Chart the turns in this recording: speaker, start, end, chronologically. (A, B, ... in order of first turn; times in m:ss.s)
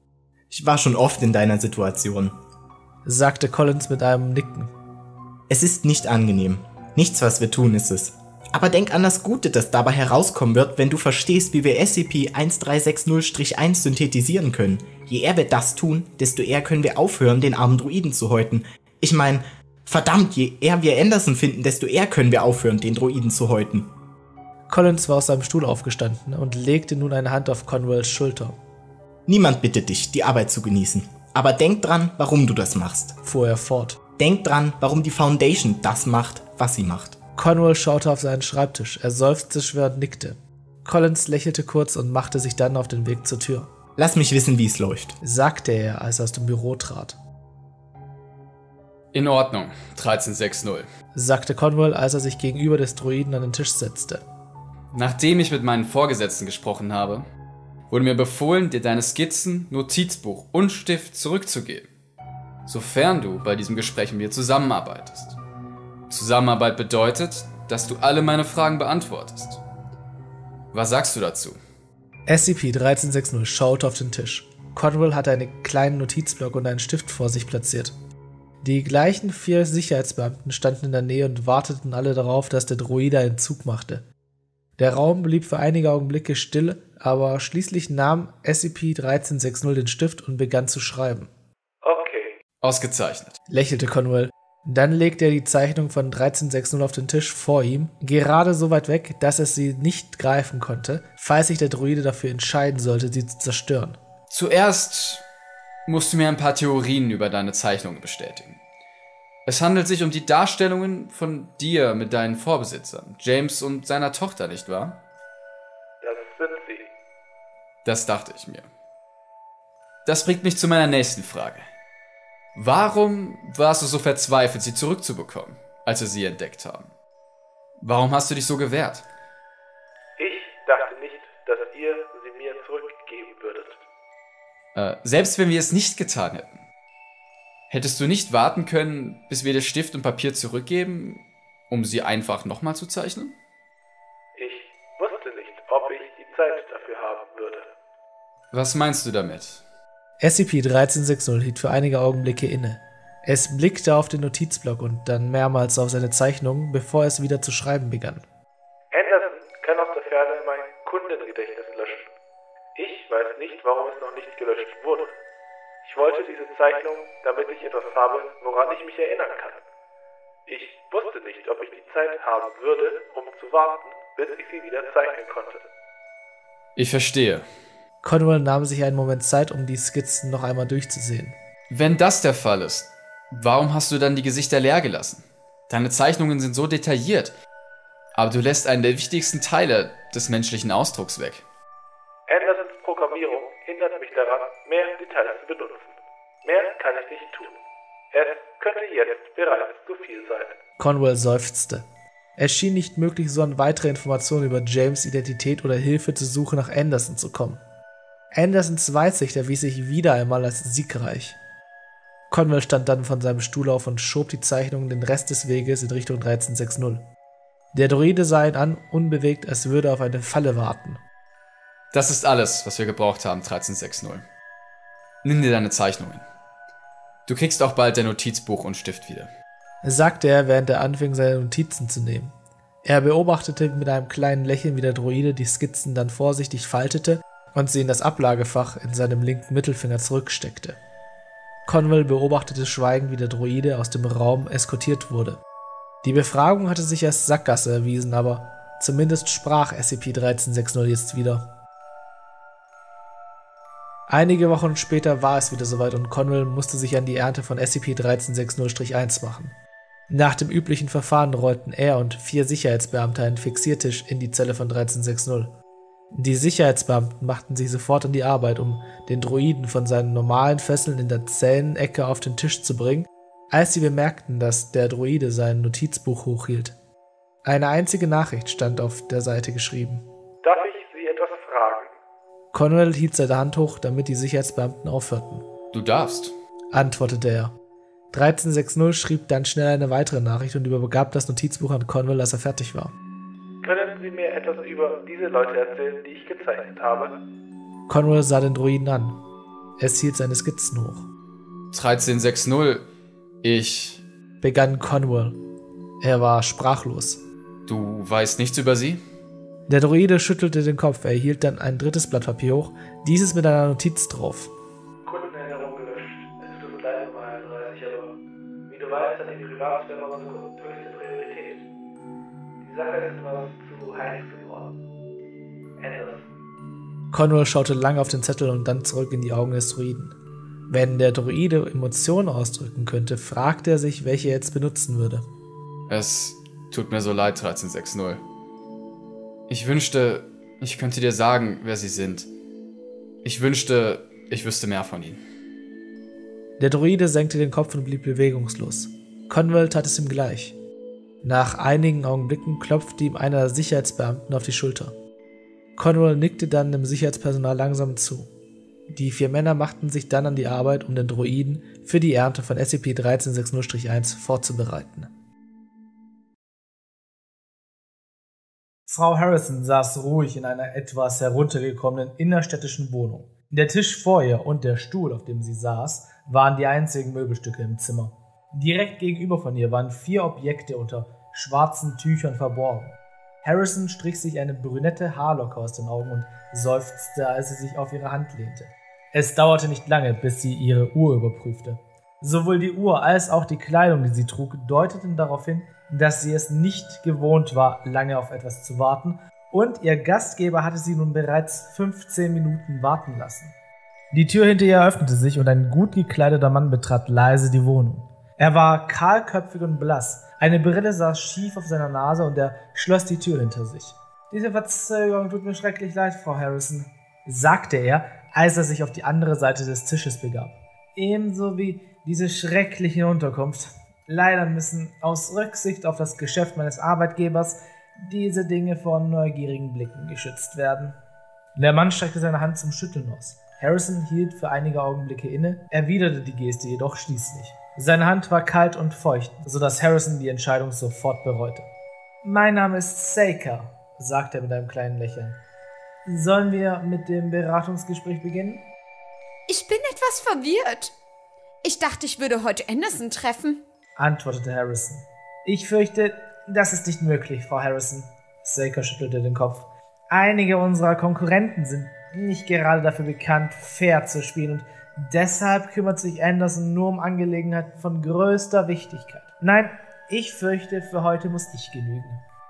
0:00.5-0:02.4 A
0:03.0-0:04.7 B
0:05.5-0:23.9 A
0:24.7-0:28.6 B
0:29.3-0:33.2 A
0:33.2-0:34.0 B
0:34.2-0:37.2 A
0:37.4-0:43.7 B
0:44.0-0:45.2 A
0:45.2-0:47.2 B
0:49.1-0:50.9 C
0:51.1-0:54.2 B
0:54.9-0:57.2 C
0:57.9-1:01.9 C
1:02.6-1:05.4 C
1:06.1-1:09.6 C
1:10.7-1:11.6 C
1:12.3-1:17.9 B
1:18.6-1:24.0 B
1:24.8-1:31.3 B
1:31.8-1:32.3 D
1:32.6-1:33.4 C
1:33.5-1:44.0 B
1:44.3-1:45.2 C
1:45.8-1:48.6 C
1:49.4-1:55.0 C
1:56.0-1:56.9 D
1:57.8-1:58.7 C
2:00.0-2:01.6 C
2:02.6-2:06.9 C
2:07.8-2:09.0 C
2:10.2-2:13.8 D
2:14.7-2:16.6 C
2:17.7-2:23.3 C
2:24.3-2:27.7 D
2:28.5-2:29.6 C
2:30.2-2:38.2 B
2:38.9-2:42.1 D
2:42.7-2:45.2 D
2:45.8-2:49.6 D
2:50.5-2:55.7 D
2:56.8-2:57.4 C
2:58.0-3:01.4 B
3:01.7-3:07.3 C
3:08.1-3:11.4 C
3:12.3-3:17.6 D
3:18.1-3:20.6 D
3:20.8-3:21.8 B
3:22.4-3:27.6 B
3:28.3-3:31.4 B
3:32.3-3:37.0 B
3:37.7-3:41.0 B
3:41.9-3:44.2 C
3:45.2-3:46.2 C
3:47.3-3:49.3 C
3:49.8-3:52.3 B
3:52.8-4:00.8 B
4:01.6-4:05.4 B
4:06.0-4:11.4 B
4:14.1-4:19.5 B
4:20.1-4:25.5 B
4:26.1-4:36.8 B
4:37.4-4:40.0 B
4:40.4-4:41.9 D
4:42.5-4:45.5 B
4:45.7-4:46.3 C
4:46.7-4:47.5 B
4:48.1-4:52.9 B
4:53.6-4:57.2 D
4:57.9-4:59.2 B
4:59.8-5:01.1 B
5:01.7-5:02.8 C
5:03.4-5:04.0 C
5:04.4-5:05.4 B
5:06.0-5:07.2 B
5:07.7-5:09.0 C
5:09.7-5:14.5 B
5:15.0-5:18.1 D
5:18.7-5:21.6 D
5:22.6-5:24.7 D
5:25.8-5:26.2 D
5:27.1-5:30.1 B
5:30.7-5:35.2 B
5:35.9-5:38.2 C
5:39.5-5:42.3 C
5:43.2-5:45.2 C
5:46.6-5:50.6 B
5:51.2-5:55.0 B
5:55.8-5:58.3 B
5:58.9-6:05.1 B
6:08.9-6:43.5 B
6:44.1-7:11.0 B
7:11.6-7:21.7 B
7:22.2-7:25.4 B
7:26.0-7:28.6 B
7:29.5-7:30.9 E
7:31.6-7:33.6 E
7:34.0-7:52.2 B